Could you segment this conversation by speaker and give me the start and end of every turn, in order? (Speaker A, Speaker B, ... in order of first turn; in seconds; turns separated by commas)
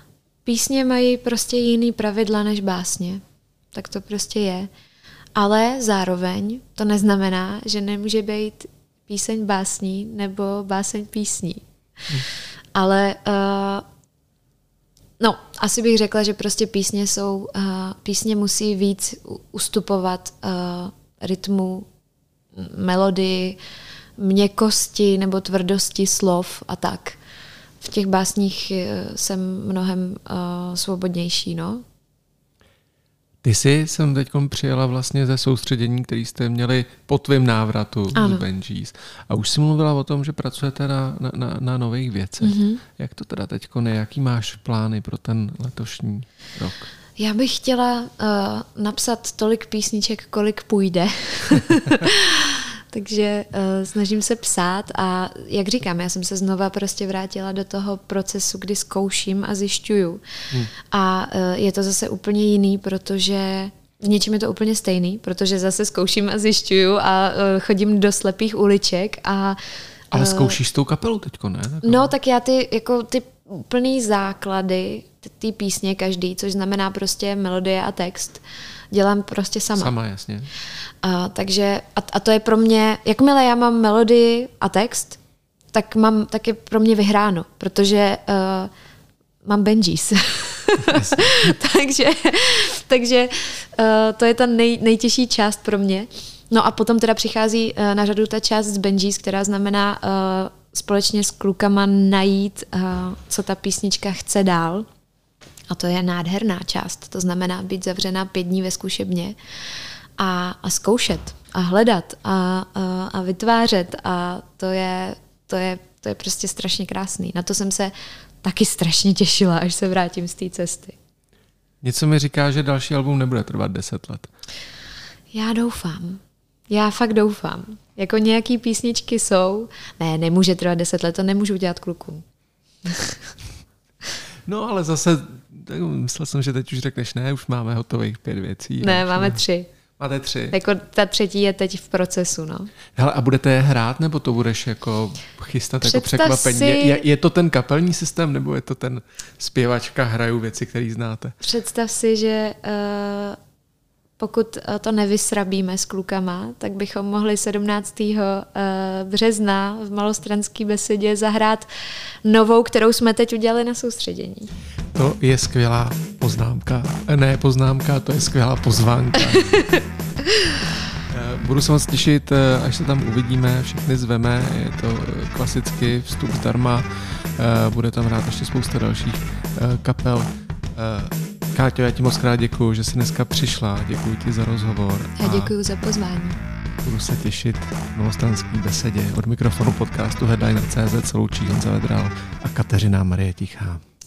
Speaker A: 0.5-3.2, Speaker A: 3.7-4.7, Speaker A: 5.3-11.6, Speaker A: 12.7-13.8, Speaker A: 15.2-21.9, Speaker A: 22.5-23.6, Speaker A: 24.2-27.2, Speaker A: 27.8-31.8, Speaker B: 33.4-46.9, Speaker A: 38.1-38.4, Speaker A: 42.4-42.8, Speaker A: 47.2-60.2, Speaker A: 60.7-70.6, Speaker B: 70.1-72.1, Speaker A: 71.8-79.9, Speaker B: 79.7-80.5, Speaker A: 81.0-85.2, Speaker A: 85.7-88.7, Speaker A: 89.4-104.9, Speaker B: 90.8-91.5, Speaker A: 105.7-109.4, Speaker A: 110.2-121.0, Speaker B: 121.8-124.3, Speaker A: 125.3-132.2, Speaker A: 132.8-133.3, Speaker B: 134.5-139.4, Speaker A: 138.8-139.7, Speaker B: 140.0-140.6, Speaker A: 140.5-142.7, Speaker B: 142.9-151.3, Speaker A: 145.8-147.0, Speaker A: 151.4-153.4, Speaker A: 154.2-161.7, Speaker A: 162.2-164.5, Speaker B: 164.9-169.5, Speaker A: 169.3-169.8, Speaker B: 171.1-185.5, Speaker A: 185.2-186.4, Speaker B: 186.8-193.8